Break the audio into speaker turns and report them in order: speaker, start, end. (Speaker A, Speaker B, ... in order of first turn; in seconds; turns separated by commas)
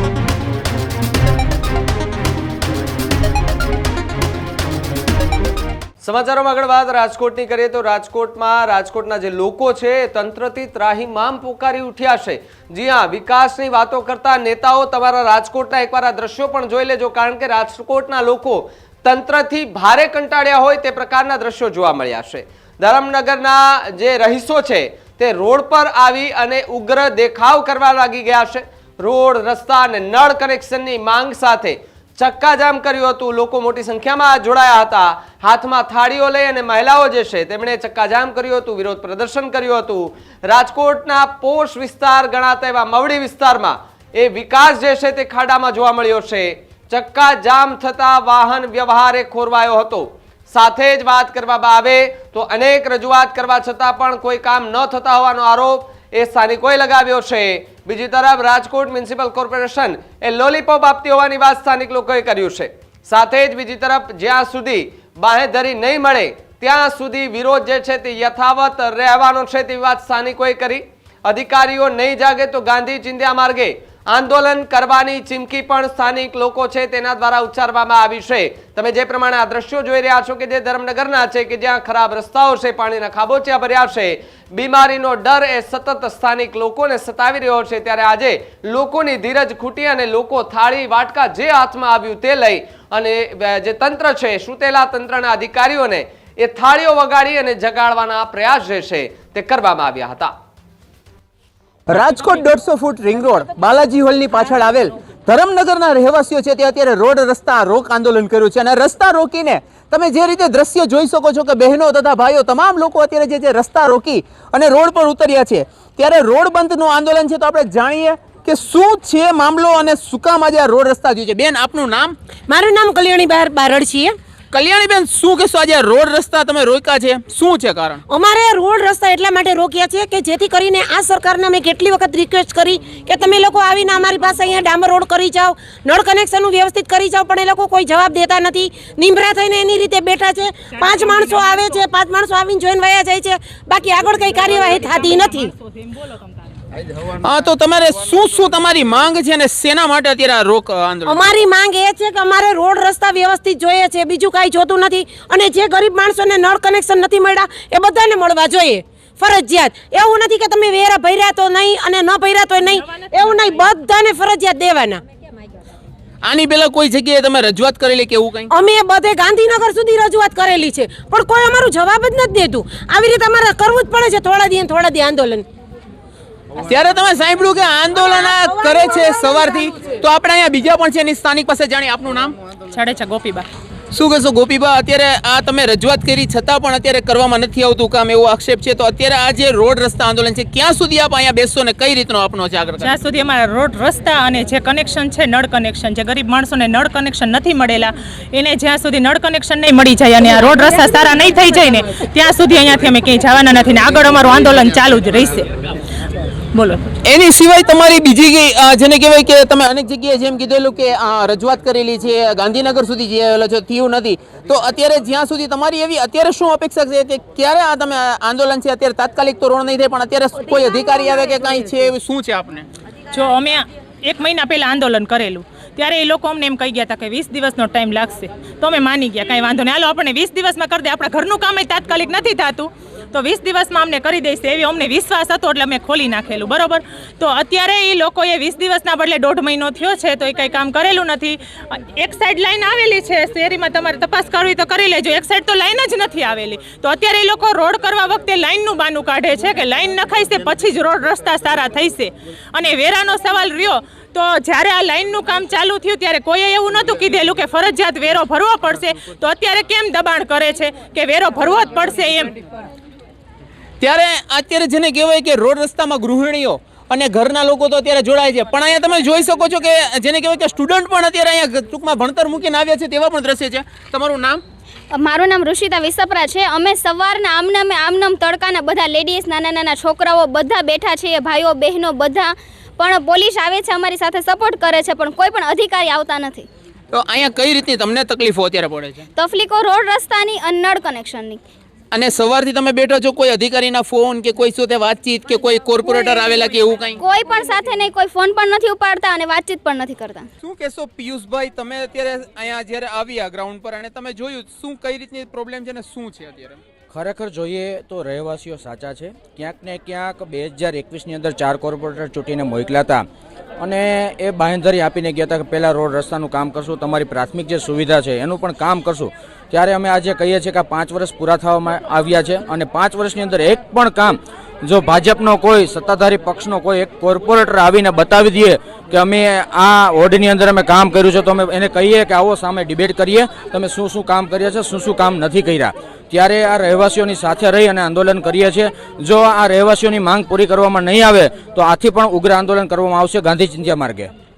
Speaker A: 6.0-100.3, Speaker B: 101.9-122.2, Speaker C: 122.5-124.2, Speaker B: 124.5-128.0, Speaker C: 128.1-145.5, Speaker B: 147.1-151.2, Speaker C: 151.1-165.0, Speaker D: 162.8-163.6, Speaker B: 166.2-168.5, Speaker C: 168.5-175.5, Speaker B: 176.6-182.3, Speaker C: 177.9-180.0, Speaker D: 182.7-183.5, Speaker B: 183.9-192.9, Speaker D: 192.8-205.5, Speaker D: 206.5-206.8, Speaker B: 207.0-222.7, Speaker D: 223.1-262.3, Speaker B: 263.8-274.4, Speaker E: 274.9-286.4, Speaker B: 286.9-289.1, Speaker E: 289.1-291.4, Speaker B: 291.9-297.0, Speaker E: 297.0-300.2, Speaker B: 300.4-306.6, Speaker F: 306.9-313.0, Speaker F: 313.6-344.1